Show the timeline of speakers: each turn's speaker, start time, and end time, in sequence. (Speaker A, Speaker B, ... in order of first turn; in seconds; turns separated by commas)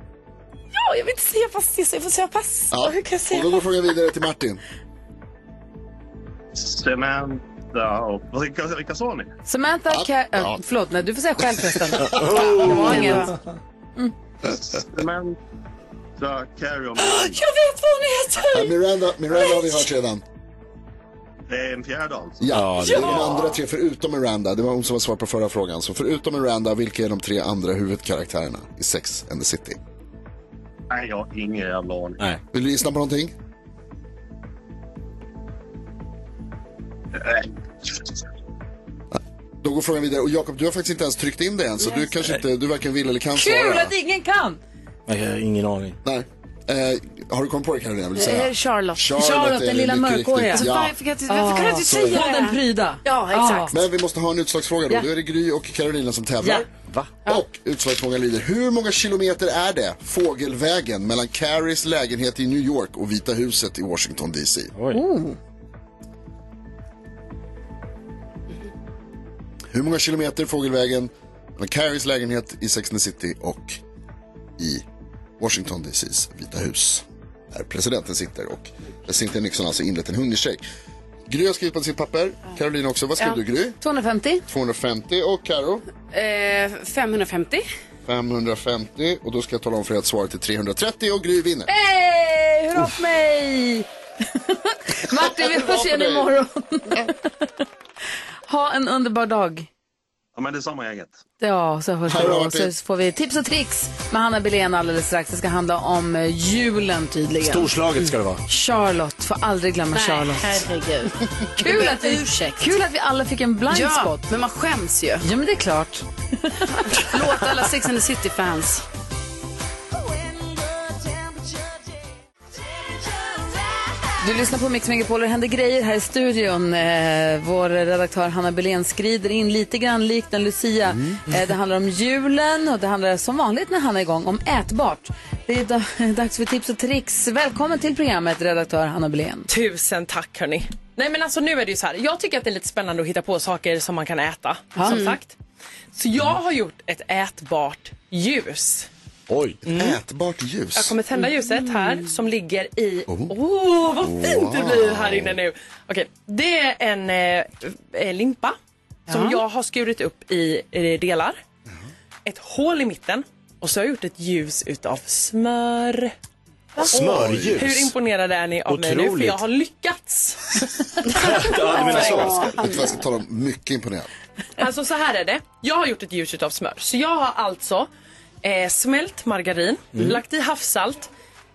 Speaker A: 0.7-3.7, Speaker B: 2.7-4.6, Speaker C: 6.5-9.3, Speaker D: 9.5-13.3, Speaker B: 9.9-10.6, Speaker B: 11.7-12.2, Speaker E: 12.0-13.2, Speaker A: 12.3-13.3, Speaker C: 14.7-15.4, Speaker C: 16.2-17.4, Speaker A: 17.2-18.6, Speaker B: 18.5-20.2, Speaker C: 21.5-22.5, Speaker B: 22.4-29.8, Speaker E: 22.5-23.2, Speaker C: 30.9-32.2, Speaker B: 32.5-33.3, Speaker C: 37.1-38.2, Speaker B: 39.1-43.9, Speaker D: 43.4-44.6, Speaker E: 45.1-46.0, Speaker B: 46.0-51.0, Speaker A: 48.2-49.0, Speaker D: 49.1-50.7, Speaker A: 50.5-53.8, Speaker D: 51.3-53.7, Speaker B: 51.9-52.2, Speaker B: 53.7-56.7, Speaker B: 57.2-64.7, Speaker E: 64.8-65.0, Speaker D: 64.9-65.4, Speaker B: 69.7-73.8, Speaker B: 74.6-74.8, Speaker B: 75.4-80.6, Speaker B: 81.3-83.8, Speaker D: 83.8-84.5, Speaker B: 84.5-85.8, Speaker A: 86.1-87.6, Speaker B: 88.1-91.7, Speaker D: 91.7-97.5, Speaker B: 95.1-96.3, Speaker D: 98.5-99.7, Speaker C: 100.3-101.2, Speaker D: 101.4-107.7, Speaker B: 102.1-102.7, Speaker E: 107.4-108.4, Speaker D: 108.5-110.7, Speaker A: 109.9-112.8, Speaker D: 111.6-114.3, Speaker A: 113.7-115.2, Speaker D: 115.2-117.5, Speaker A: 116.8-118.8, Speaker D: 124.2-139.5, Speaker F: 139.5-145.4, Speaker A: 144.8-145.2, Speaker F: 145.9-148.9, Speaker E: 149.3-149.6, Speaker B: 149.6-151.0, Speaker F: 149.7-150.0, Speaker F: 150.8-158.6, Speaker B: 153.1-153.3, Speaker B: 153.9-155.4, Speaker F: 159.1-161.4, Speaker A: 159.1-159.4, Speaker F: 162.2-166.1, Speaker F: 166.8-170.6, Speaker B: 166.8-167.7, Speaker E: 166.9-167.9, Speaker E: 168.7-169.4, Speaker A: 171.1-172.9, Speaker E: 171.1-172.6, Speaker F: 171.8-172.8, Speaker B: 172.6-174.1, Speaker F: 174.6-177.9, Speaker F: 178.4-181.1, Speaker E: 179.9-180.2